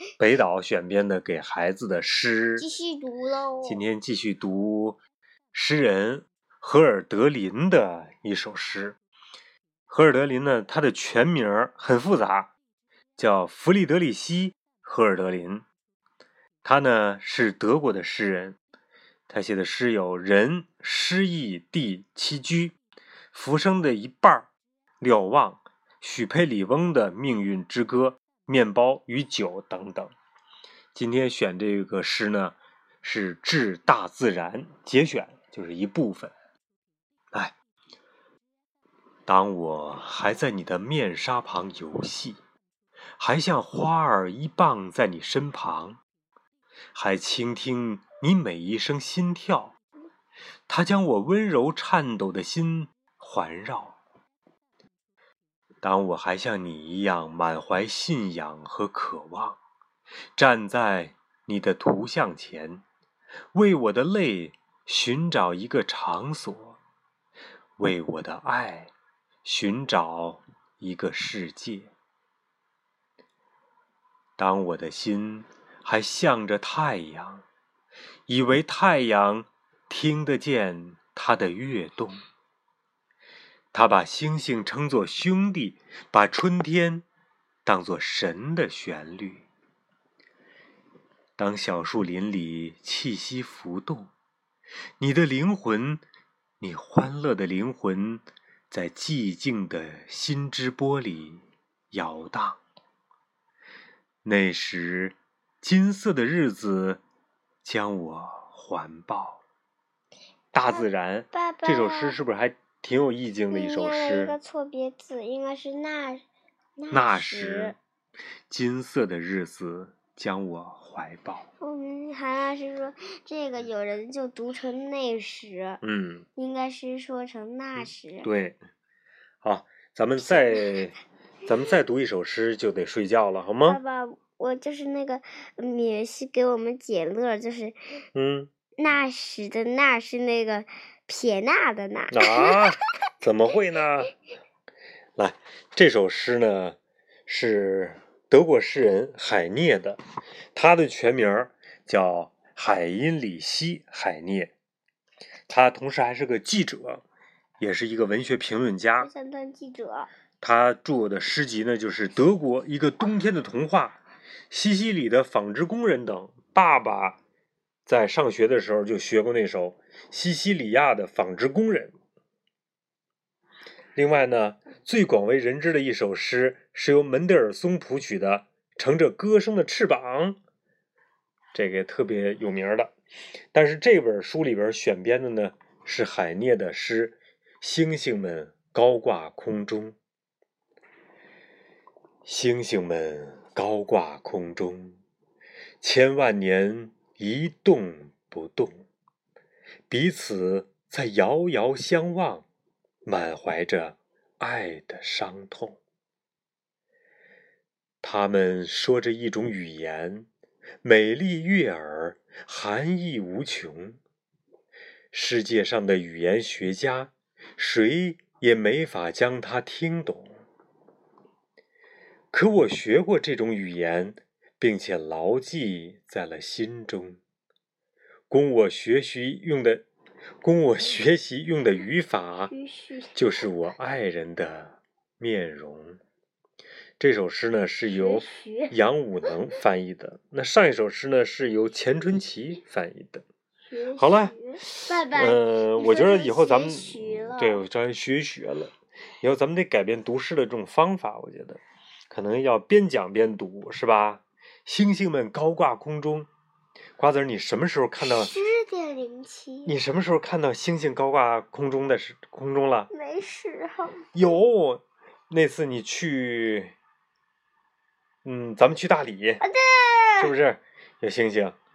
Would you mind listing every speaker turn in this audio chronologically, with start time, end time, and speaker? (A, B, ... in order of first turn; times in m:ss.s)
0:00.2-0:02.7 A
0:02.6-0:03.8 B
0:03.6-0:05.0 A
0:05.5-0:09.0 A
0:09.9-0:12.5 A
0:13.2-0:15.6 A
0:16.6-0:18.6 A
0:19.3-0:22.7 A
0:23.3-0:24.5 A
0:25.0-0:30.1 A
0:30.9-0:36.3 A
0:39.2-0:42.4 A
0:43.2-0:46.0 A
0:46.9-0:49.7 A
0:50.7-0:54.0 A
0:55.8-0:59.6 A
1:00.4-1:02.8 A
1:03.5-1:06.8 A
1:07.8-1:08.9 A
1:09.4-1:11.9 A
1:14.4-1:17.4 A
1:18.3-1:22.2 A
1:23.7-1:27.0 A
1:27.6-1:29.4 A
1:31.4-1:34.1 A
1:35.0-1:36.0 A
1:36.6-1:42.6 A
1:44.2-1:47.0 A
1:47.6-1:49.4 A
1:50.5-1:54.4 A
1:50.7-1:52.2 B
1:53.5-1:56.2 B
1:56.8-1:57.8 B
1:56.9-1:57.8 A
1:58.5-2:01.5 A
2:01.6-2:05.8 B
2:05.8-2:06.2 A
2:06.4-2:08.3 B
2:07.8-2:08.6 A
2:09.4-2:13.8 A
2:13.6-2:17.8 B
2:18.1-2:18.5 A
2:18.8-2:22.6 B
2:22.1-2:24.1 A
2:25.2-2:30.0 A
2:30.5-2:34.5 A
2:35.5-2:37.0 A
2:37.6-2:39.1 A
2:39.0-2:40.1 B
2:40.4-2:44.0 A
2:44.5-2:47.2 A
2:47.8-2:52.0 A
2:53.9-3:00.4 A
3:01.5-3:02.9 A
3:03.5-3:10.0 A
3:12.2-3:15.0 A
3:15.8-3:18.8 A
3:19.9-3:22.4 A
3:23.0-3:25.8 A
3:28.0-3:30.3 A
3:30.8-3:34.0 A
3:35.1-3:40.3 A
3:42.3-3:47.2 A
3:48.3-3:49.8 A
3:50.4-3:52.5 A
3:52.5-3:53.2 B
3:53.1-3:56.0 A
3:57.0-4:03.2 A
3:57.9-3:58.7 B
4:03.7-4:07.6 B
4:04.0-4:16.3 A
4:17.0-4:18.3 A
4:18.0-4:19.7 B
4:19.6-4:22.9 A
4:22.9-4:24.0 B
4:24.1-4:26.7 A
4:28.2-4:29.4 A
4:29.4-4:30.3 B
4:30.2-4:31.6 A